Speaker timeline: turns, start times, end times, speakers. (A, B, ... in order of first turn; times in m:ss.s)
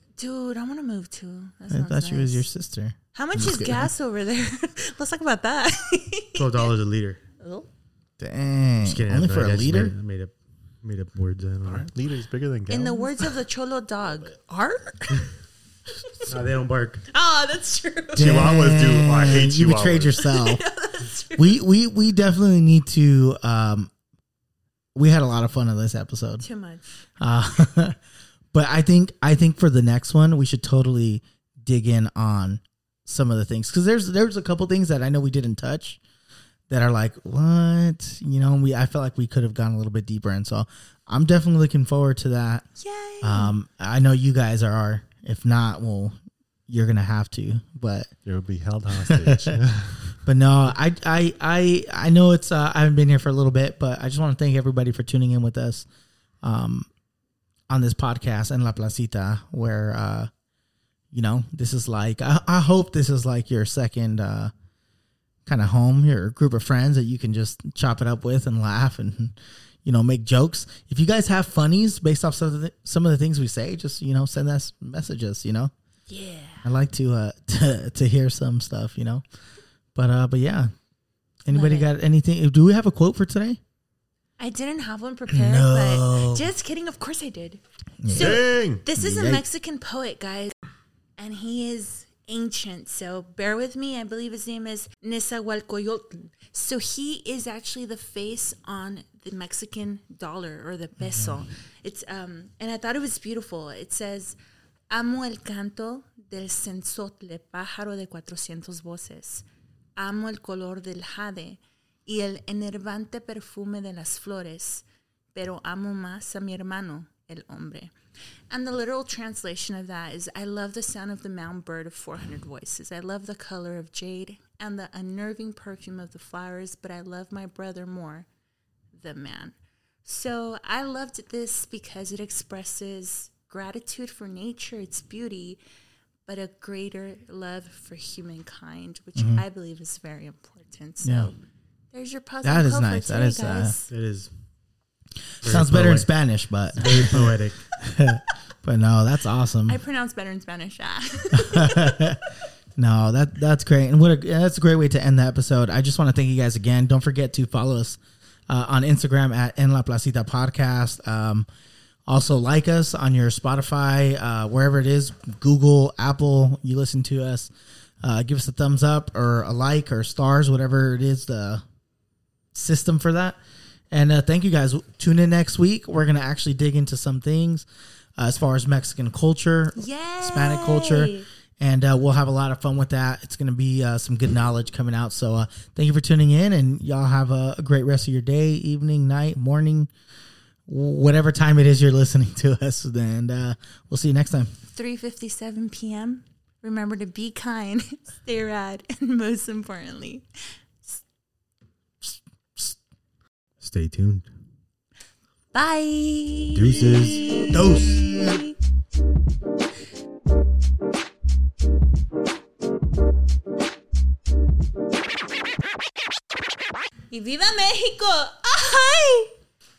0:00.2-0:02.5 A
0:01.7-0:03.9 B
0:03.1-0:06.7 A
0:06.4-0:07.2 C
0:07.4-0:07.7 A
0:08.2-0:09.9 B
0:08.8-0:11.9 C
0:11.6-0:13.2 D
0:12.7-0:15.3 A
0:16.3-0:17.0 C
0:17.1-0:18.4 A
0:18.2-0:20.1 D
0:18.2-0:20.6 B
0:20.2-0:21.6 A
0:21.4-0:23.9 B
0:25.0-0:26.4 B
0:26.4-0:26.9 A
0:27.2-0:28.0 B
0:28.5-0:36.0 B
0:36.7-0:42.7 B
0:42.8-0:43.6 A
0:43.2-0:46.2 B
0:46.7-0:48.1 B
0:48.3-0:50.0 D
0:49.1-0:49.6 B
0:50.2-0:55.9 B
0:56.4-0:56.9 B
0:57.7-1:00.3 B
1:01.1-1:04.5 B
1:05.4-1:15.7 B
1:16.1-1:16.6 A
1:16.6-1:19.2 B
1:20.0-1:20.7 B
1:21.4-1:23.6 B
1:21.5-1:21.9 A
1:24.4-1:30.5 A
1:25.3-1:26.5 B
1:28.0-1:28.4 B
1:28.1-1:28.8 D
1:29.0-1:29.4 B
1:31.2-1:44.4 A
1:41.0-1:41.4 B
1:44.9-1:49.4 A
1:50.0-1:54.8 A
1:55.4-1:57.9 A
1:58.5-2:08.3 A
2:09.0-2:15.6 A
2:16.3-2:21.4 A
2:19.2-2:19.4 B
2:21.0-2:21.3 B
2:21.9-2:23.9 A
2:22.4-2:23.7 B
2:23.9-2:24.3 C
2:25.4-2:29.8 B
2:25.4-2:26.1 C
2:26.7-2:27.7 C
2:29.7-2:32.0 A
2:31.3-2:41.5 B
2:42.1-2:47.5 B
2:48.0-2:51.6 B
2:52.5-2:53.4 B
2:53.9-2:57.7 B
2:58.2-3:09.9 B
2:59.8-3:01.3 A
3:10.7-3:14.5 B
3:14.7-3:20.3 A
3:22.0-3:22.8 B
3:23.6-3:24.3 C
3:25.5-3:28.6 A
3:26.5-3:27.5 C
3:27.5-3:28.4 B
3:37.1-3:39.3 A